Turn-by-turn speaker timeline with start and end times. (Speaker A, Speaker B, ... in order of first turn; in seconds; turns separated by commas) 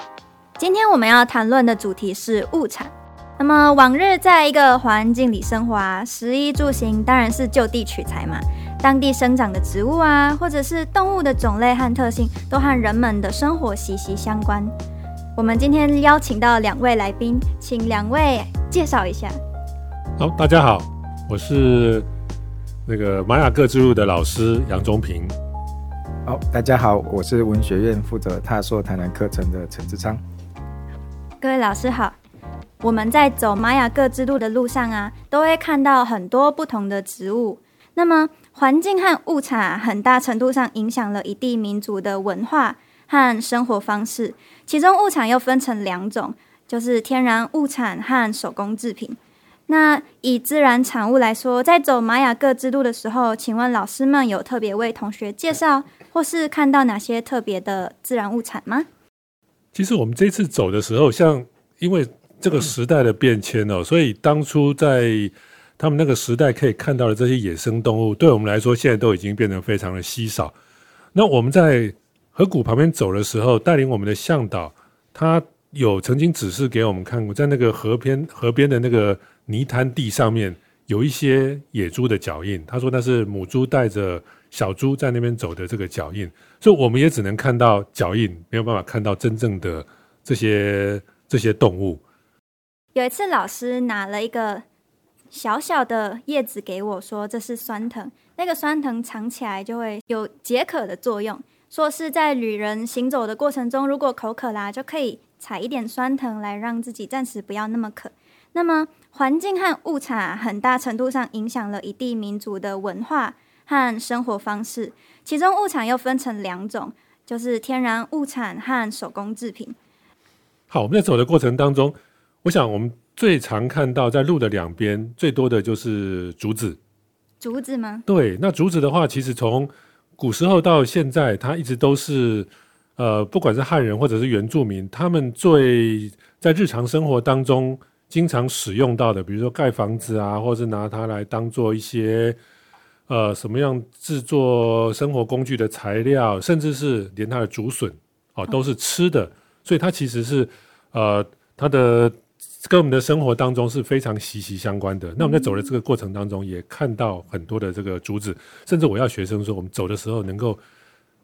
Speaker A: 0.6-14.7, Speaker A: 15.3-19.4, Speaker B: 20.2-22.1, Speaker B: 22.9-25.3, Speaker C: 26.2-30.2, Speaker A: 31.4-32.1, Speaker A: 32.8-58.9, Speaker B: 59.7-70.5, Speaker B: 71.1-92.0, Speaker A: 92.9-94.6, Speaker A: 95.3-119.8, Speaker B: 120.7-126.8, Speaker A: 127.4-128.0, Speaker B: 128.1-142.4, Speaker B: 143.1-160.6, Speaker A: 155.2-155.7